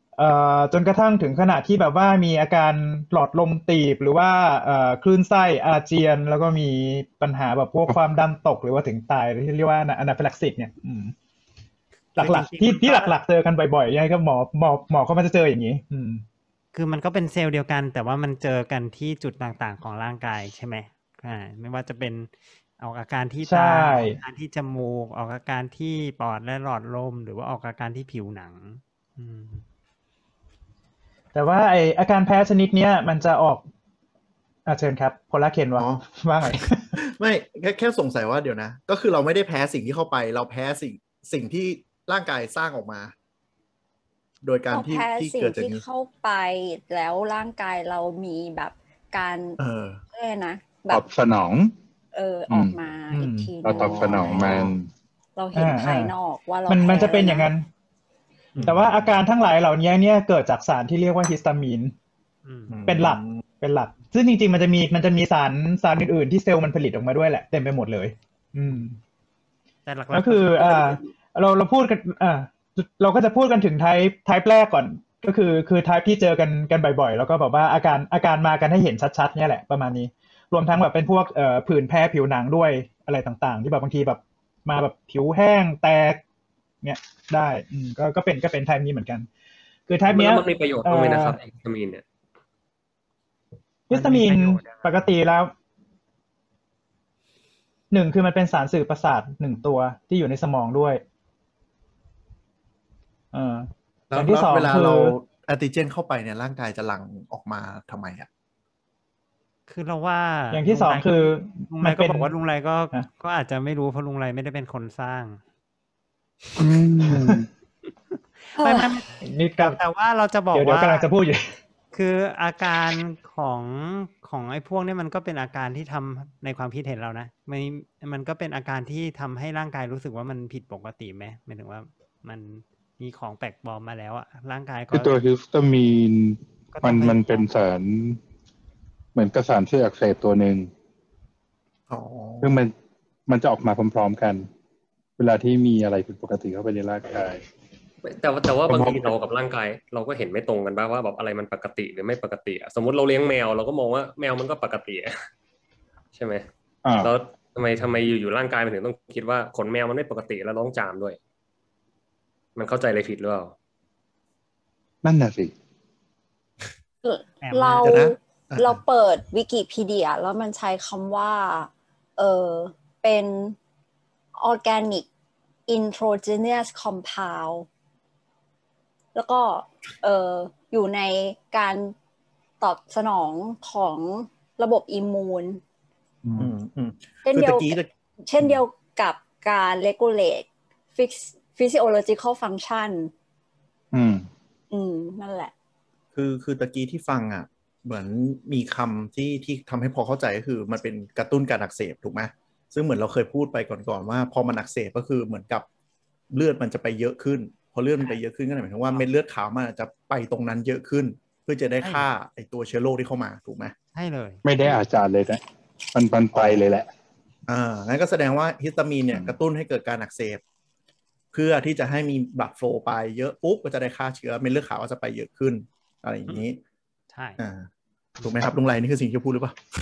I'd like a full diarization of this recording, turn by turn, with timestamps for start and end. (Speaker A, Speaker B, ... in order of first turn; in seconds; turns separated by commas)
Speaker A: 0.2-11.1, Speaker B: 12.2-13.2, Speaker A: 12.2-16.2, Speaker B: 16.7-29.6, Speaker A: 23.5-24.2, Speaker A: 31.3-33.6, Speaker A: 34.7-37.0, Speaker C: 35.8-36.0, Speaker C: 37.0-43.1, Speaker C: 44.4-45.8, Speaker D: 44.7-49.6, Speaker C: 49.6-50.0, Speaker D: 50.1-51.0, Speaker E: 50.9-51.7, Speaker D: 52.1-54.5, Speaker E: 52.5-52.8, Speaker A: 53.1-53.6, Speaker E: 53.6-54.9, Speaker C: 53.7-54.7, Speaker D: 55.4-57.5, Speaker A: 55.5-56.1, Speaker A: 56.7-57.7, Speaker C: 58.5-59.2, Speaker A: 58.6-61.9, Speaker B: 62.5-62.8, Speaker C: 62.7-63.4, Speaker A: 62.9-69.0, Speaker B: 69.9-70.8, Speaker A: 70.1-86.2, Speaker A: 86.8-89.3, Speaker A: 89.9-91.4, Speaker F: 90.1-92.0, Speaker A: 93.9-95.5, Speaker B: 93.9-94.6, Speaker A: 97.9-101.0, Speaker A: 103.3-105.2, Speaker C: 104.1-108.3, Speaker B: 109.7-115.4, Speaker A: 110.5-112.3, Speaker E: 116.6-117.5, Speaker B: 118.1-119.1, Speaker D: 118.6-119.0, Speaker A: 119.2-119.8, Speaker B: 119.6-121.1, Speaker A: 120.5-121.5, Speaker B: 121.9-135.2, Speaker E: 134.9-138.2, Speaker B: 136.7-137.5, Speaker E: 139.2-140.7, Speaker C: 141.9-142.5, Speaker E: 142.4-142.7, Speaker E: 143.3-144.5, Speaker E: 145.2-147.4, Speaker F: 148.0-155.2, Speaker E: 148.6-149.2, Speaker F: 156.1-156.4, Speaker E: 156.8-157.1, Speaker F: 157.0-161.2, Speaker F: 162.6-163.5, Speaker E: 165.0-165.5, Speaker D: 167.0-173.6, Speaker B: 167.4-168.0, Speaker C: 167.8-168.8, Speaker D: 174.4-175.1, Speaker D: 175.7-177.7, Speaker D: 179.2-181.9, Speaker D: 182.6-185.6, Speaker E: 186.2-186.5, Speaker C: 186.4-188.6, Speaker D: 187.2-193.1, Speaker E: 193.9-194.3, Speaker D: 194.7-195.5, Speaker C: 196.2-205.7, Speaker C: 206.3-213.7, Speaker B: 211.8-212.1, Speaker B: 213.9-214.4, Speaker E: 214.4-215.4, Speaker E: 215.9-216.9, Speaker C: 216.3-216.6, Speaker C: 217.5-220.4, Speaker C: 221.3-226.6, Speaker B: 227.1-227.4, Speaker C: 227.4-227.7, Speaker C: 228.2-229.6